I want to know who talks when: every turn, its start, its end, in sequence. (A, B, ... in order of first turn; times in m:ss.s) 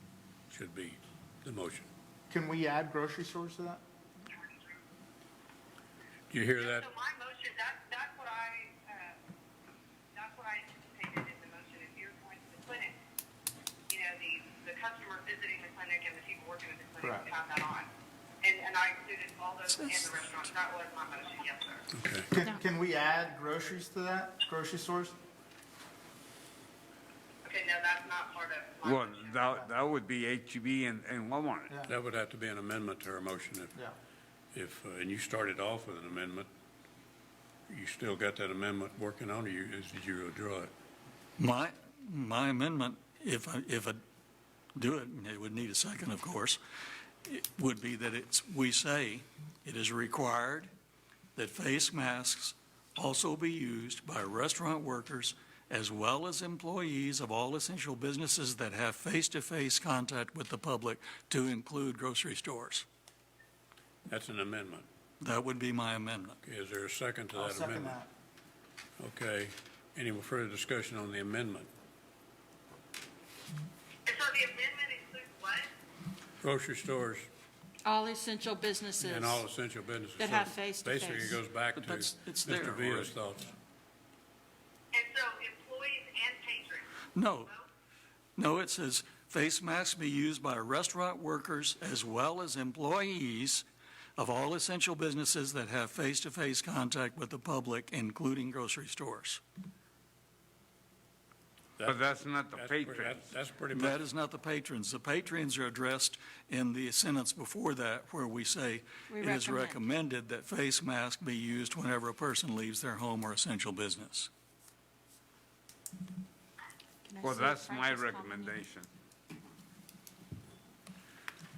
0:00.5-0:01.9 A
0:02.3-0:03.8 B
0:06.3-0:06.9 A
0:06.6-0:09.2 C
0:10.1-0:13.0 C
0:13.9-0:17.9 C
0:18.4-0:21.9 C
0:19.7-0:20.5 D
0:21.9-0:22.3 A
0:22.3-0:25.2 B
0:27.4-0:29.6 C
0:28.8-0:31.7 E
0:31.9-0:33.8 A
0:34.5-0:36.5 A
0:37.7-0:40.7 A
0:41.4-0:44.0 D
0:44.7-0:46.6 D
0:47.2-0:50.7 D
0:51.4-1:02.8 D
1:04.1-1:04.9 A
1:05.2-1:06.4 D
1:06.4-1:08.0 A
1:07.3-1:08.1 B
1:09.0-1:11.7 A
1:14.0-1:15.7 C
1:16.4-1:17.3 A
1:17.8-1:19.4 F
1:19.0-1:23.5 A
1:20.2-1:21.4 F
1:21.7-1:23.1 D
1:24.9-1:26.9 C
1:27.1-1:27.5 D
1:28.4-1:33.6 D
1:34.2-1:39.4 D
1:41.8-1:43.2 E
1:42.5-1:44.0 A
1:43.7-1:54.3 D
1:49.1-1:49.8 F
1:57.0-1:58.6 F
1:57.2-1:58.9 E